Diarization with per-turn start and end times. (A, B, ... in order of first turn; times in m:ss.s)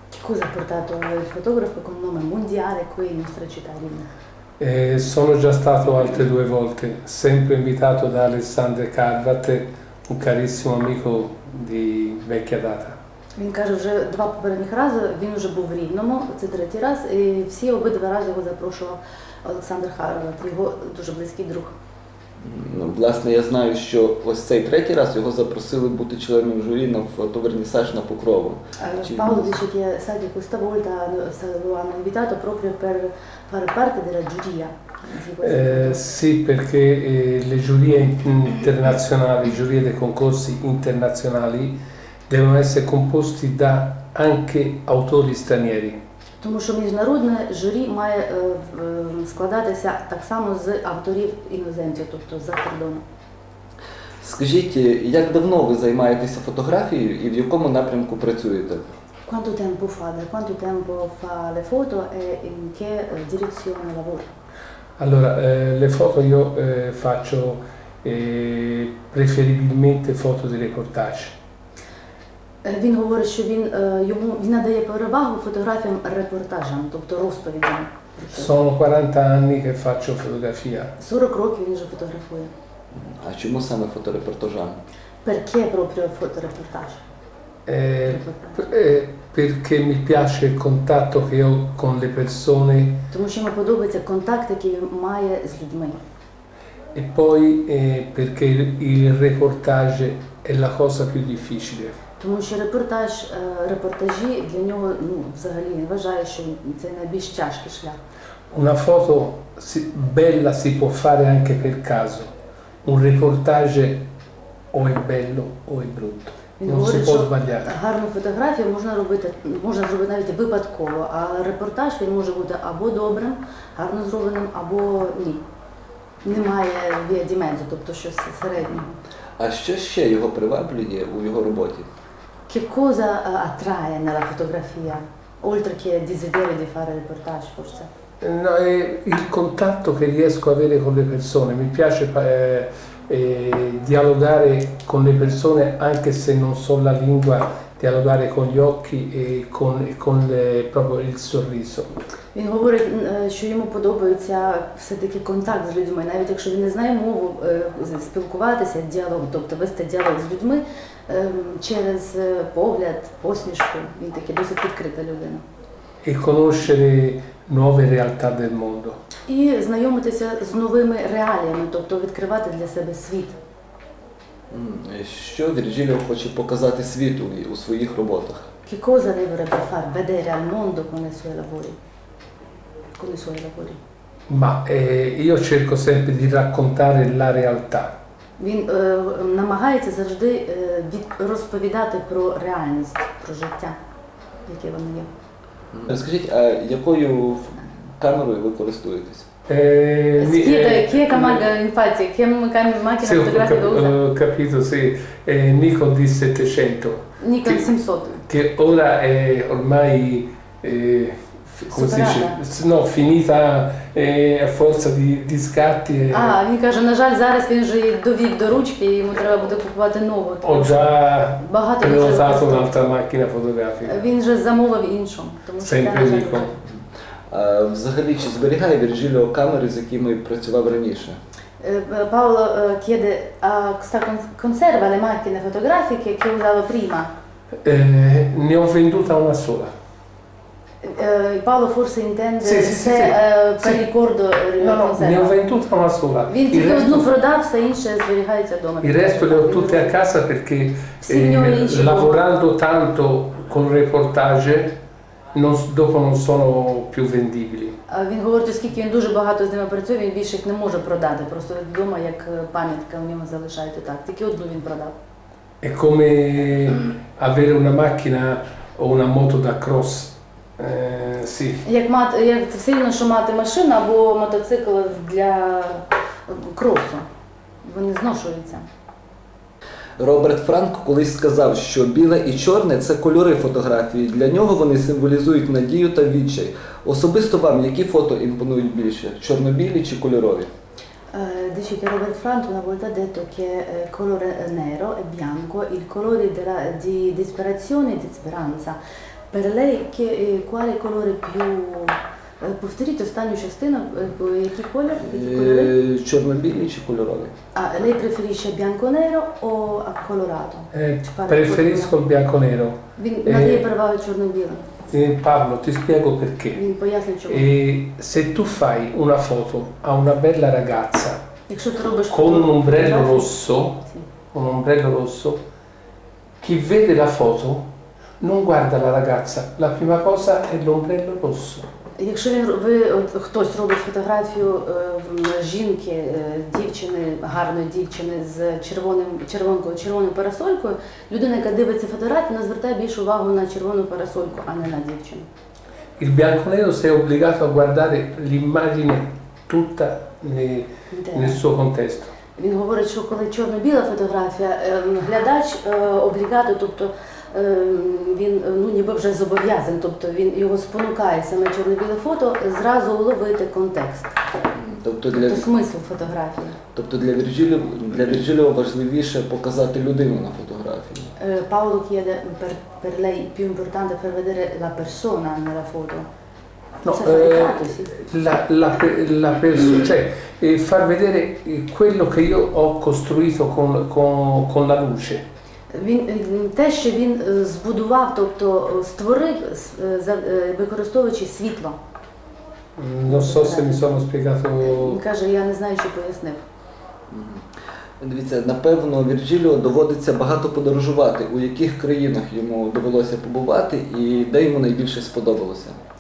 0:00.2-0:04.1 A
0:04.6-0:13.0 B
0:13.4-0:21.7 A
0:22.4-0:29.6 C
0:28.8-0:36.1 A
0:35.4-0:46.0 B
0:46.4-0:53.0 A
0:54.2-0:59.0 C
0:59.3-1:04.3 A
1:05.0-1:11.4 B
1:12.6-1:18.5 A
1:18.3-1:20.9 B
1:21.0-1:22.5 A
1:22.9-1:24.8 C
1:25.2-1:27.0 A
1:27.7-1:33.0 B
1:28.1-1:28.6 A
1:33.1-1:36.0 A
1:36.9-1:42.0 B
1:42.2-1:48.0 A
1:48.5-1:52.3 B
1:52.8-1:54.0 B
1:54.7-1:57.8 B
1:56.6-2:05.4 A
2:06.2-2:09.0 A
2:09.4-2:11.9 C
2:12.5-2:17.9 A
2:18.2-2:31.9 B
2:32.3-2:45.4 A
2:46.0-2:49.0 B
2:49.3-2:53.4 A
2:54.5-2:58.5 C
2:58.7-3:01.8 A
3:03.0-3:03.8 A
3:04.3-3:07.9 B
3:08.4-3:13.8 A
3:14.5-3:15.1 A
3:15.7-3:19.3 C
3:19.5-3:21.5 B
3:20.2-3:24.0 A
3:23.0-3:27.7 B
3:27.2-3:28.2 A
3:28.2-3:36.4 B
3:31.7-3:32.4 A
3:36.1-3:42.7 A
3:40.4-3:44.1 B
3:43.8-3:46.6 A
3:45.6-3:46.5 B
3:46.7-3:51.2 C
3:51.6-3:57.1 A
3:57.6-3:59.7 B
4:00.8-4:05.4 A
4:02.4-4:03.9 B
4:04.6-4:07.1 B
4:06.3-4:09.9 A
4:08.8-4:14.8 B
4:11.0-4:12.2 A
4:15.3-4:17.8 B
4:17.9-4:25.0 A
4:25.6-4:31.6 B
4:31.6-4:37.1 A
4:37.6-4:38.7 A
4:40.0-4:50.5 C
4:51.1-4:58.8 A
4:59.3-5:05.8 A
5:05.0-5:07.3 C
5:07.5-5:11.9 A
5:10.7-5:13.7 B
5:13.0-5:14.7 A
5:14.9-5:16.6 B
5:16.5-5:17.5 A
5:17.3-5:21.2 B
5:21.5-5:23.3 A
5:22.1-5:25.4 B
5:26.4-5:27.7 B
5:28.2-5:31.7 B
5:32.0-5:45.3 A
5:46.0-5:52.1 B
5:50.9-5:51.4 A
5:52.4-6:04.2 A
6:04.5-6:05.5 C
6:05.1-6:06.6 A
6:06.7-6:11.1 C
6:11.2-6:16.1 A
6:16.8-6:25.2 B
6:16.9-6:17.9 A
6:25.7-6:31.8 A
6:32.8-6:35.0 B
6:33.0-6:34.0 A
6:34.6-6:36.4 A
6:37.1-6:37.5 C
6:38.0-6:45.8 C